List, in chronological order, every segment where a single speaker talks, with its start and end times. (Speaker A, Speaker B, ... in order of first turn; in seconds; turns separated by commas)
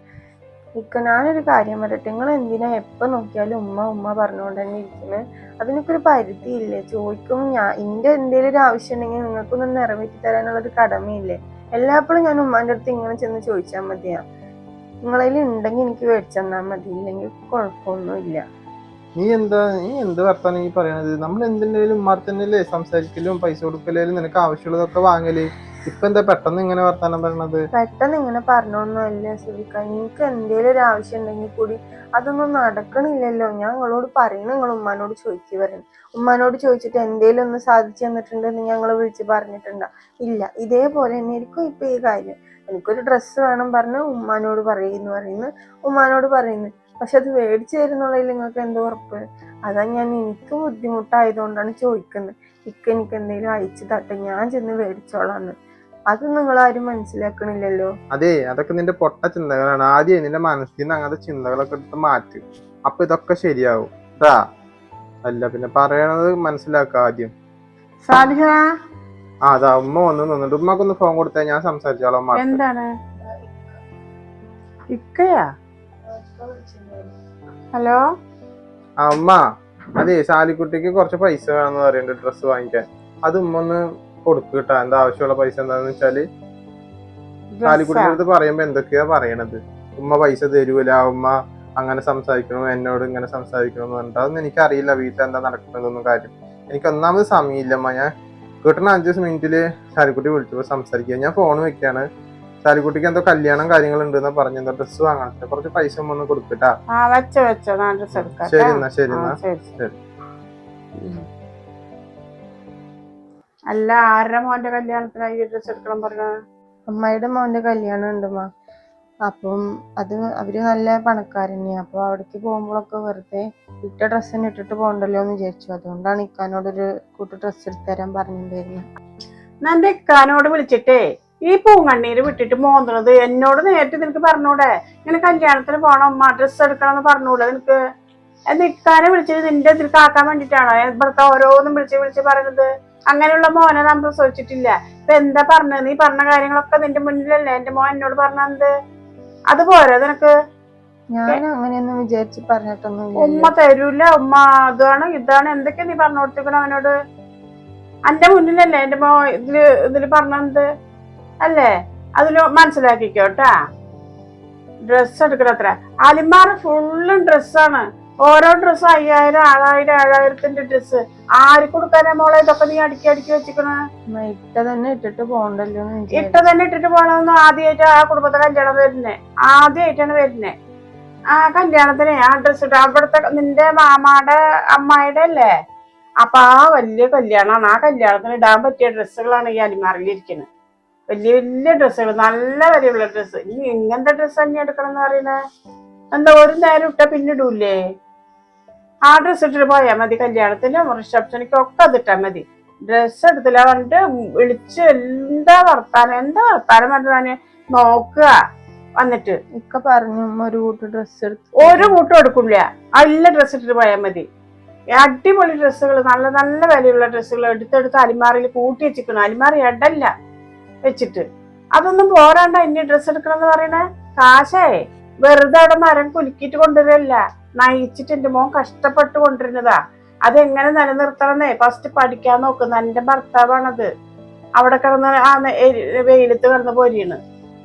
Speaker A: 0.8-14.2, Speaker A: 15.1-18.4, Speaker B: 19.2-27.6, Speaker A: 27.8-55.5, Speaker A: 56.1-57.9, Speaker B: 58.1-64.4, Speaker B: 65.2-67.3, Speaker C: 68.0-68.6, Speaker B: 69.5-72.6, Speaker C: 72.4-72.9, Speaker A: 73.2-73.6, Speaker C: 74.9-75.5, Speaker A: 76.1-77.2, Speaker C: 77.8-78.0, Speaker B: 79.0-79.4, Speaker B: 80.0-86.3, Speaker C: 87.5-88.2, Speaker B: 87.7-98.1, Speaker B: 98.6-102.1, Speaker B: 102.6-106.8, Speaker C: 106.9-109.8, Speaker B: 108.2-110.0, Speaker C: 113.7-116.3, Speaker A: 116.9-118.5, Speaker A: 119.3-128.9, Speaker C: 129.6-137.8, Speaker C: 138.5-148.7, Speaker C: 149.5-150.3, Speaker A: 151.2-153.5, Speaker C: 153.2-156.9, Speaker C: 158.1-160.7, Speaker C: 161.4-163.5, Speaker C: 164.9-173.8, Speaker A: 174.1-176.5, Speaker C: 176.2-180.6, Speaker C: 181.3-185.5, Speaker C: 186.2-190.5, Speaker C: 191.1-195.4, Speaker C: 196.1-197.8, Speaker C: 199.1-208.3, Speaker C: 209.0-209.4, Speaker A: 209.6-212.0, Speaker C: 211.6-214.3, Speaker C: 214.9-220.1, Speaker C: 220.9-221.2, Speaker C: 221.8-224.7, Speaker C: 225.3-233.9, Speaker C: 234.6-237.2